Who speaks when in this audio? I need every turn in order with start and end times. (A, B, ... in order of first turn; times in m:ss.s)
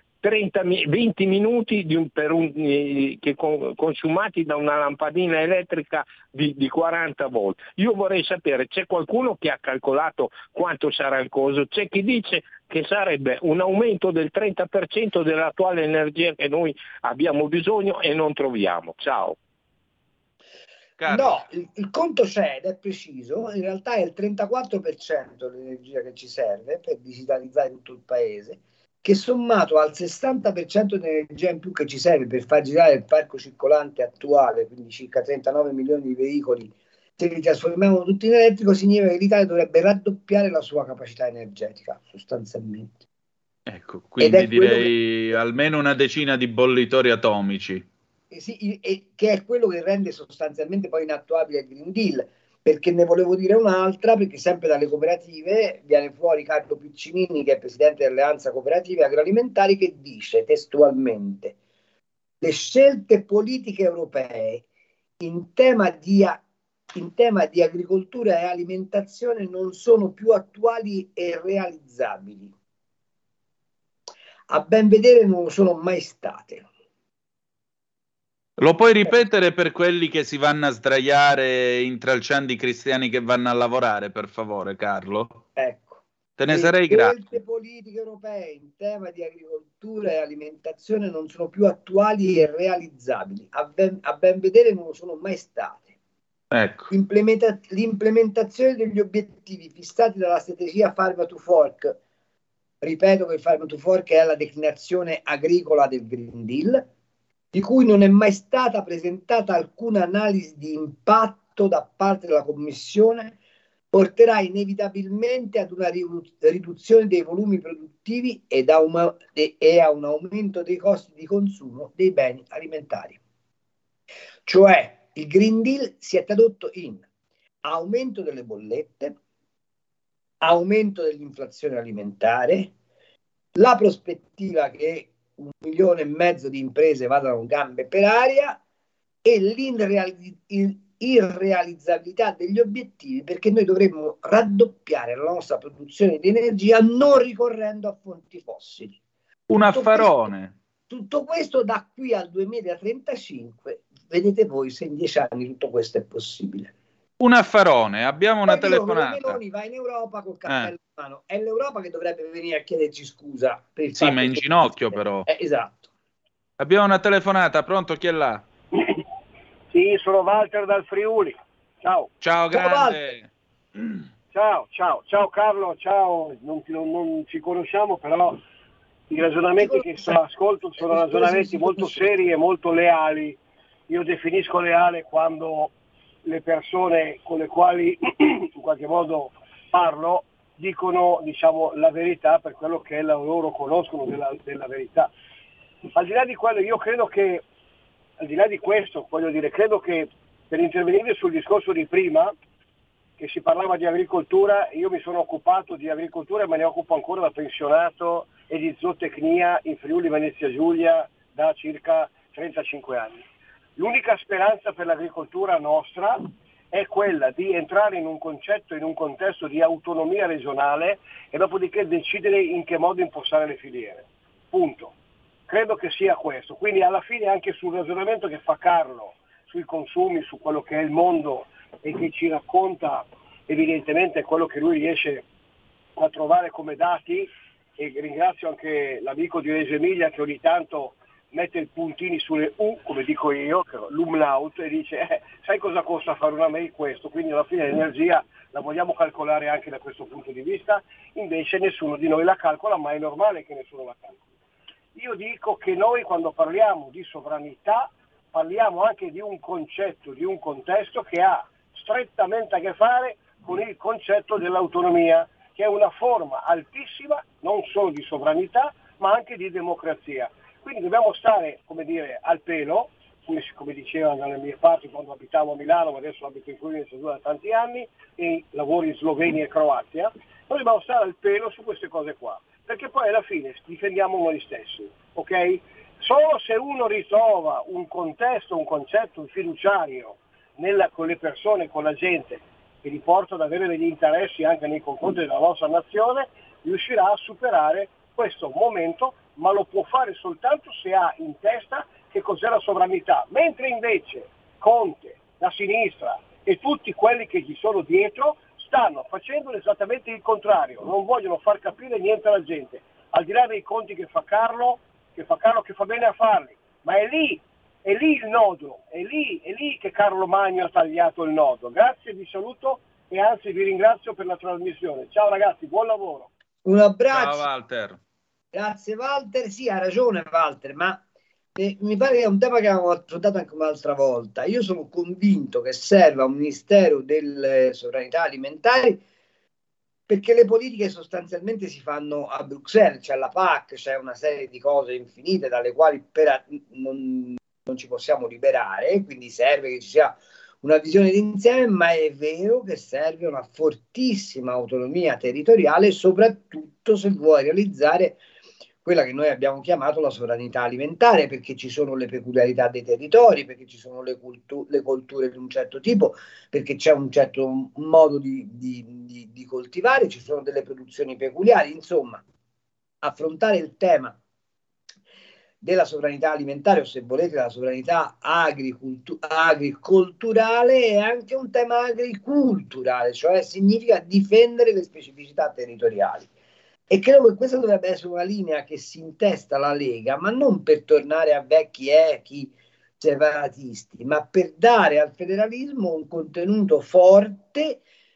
0:00.2-0:19.4 A
0:21.0-0:21.4 B
0:21.0-0:43.0 C
0:43.7-0:47.8 B
0:44.2-0:44.9 C
0:48.3-1:01.5 C
1:02.4-1:04.6 C
1:05.2-1:06.4 C
1:06.9-1:12.5 C
1:14.5-1:16.6 C
1:18.6-1:25.4 B
1:25.6-1:35.9 C
1:26.4-1:27.2 B
1:36.5-1:36.9 B
1:36.9-1:42.0 C
1:42.8-1:46.8 C
1:47.5-1:53.3 C
1:53.9-2:03.2 C
2:04.4-2:07.0 C
2:07.6-2:09.2 C
2:10.4-2:12.7 C
2:13.5-2:18.6 C
2:19.2-2:29.0 C
2:29.5-2:30.5 B
2:29.6-2:30.3 C
2:30.9-2:36.7 C
2:37.2-2:39.4 B
2:38.4-2:45.9 C
2:40.4-2:40.7 B
2:43.9-2:45.3 B
2:46.6-2:48.4 B
2:49.7-2:52.1 D
2:52.2-2:53.2 B
2:52.5-2:53.1 C
2:53.8-2:54.0 B
2:54.3-2:58.4 D
2:59.1-3:05.7 D
2:59.6-3:00.1 C
3:00.8-3:02.1 C
3:06.2-3:15.1 D
3:15.9-3:17.4 D
3:18.2-3:22.3 D
3:23.2-3:33.2 D
3:33.8-3:44.9 D
3:45.5-3:55.2 D
3:56.0-4:14.2 D
4:14.9-5:26.3 D
5:26.6-5:27.4 C
5:27.1-5:28.0 B
5:28.5-5:31.0 C
5:31.6-5:39.0 C
5:40.1-5:58.2 C
5:58.8-6:12.2 C
6:13.0-6:14.2 C
6:15.6-6:26.3 C
6:26.9-6:37.8 C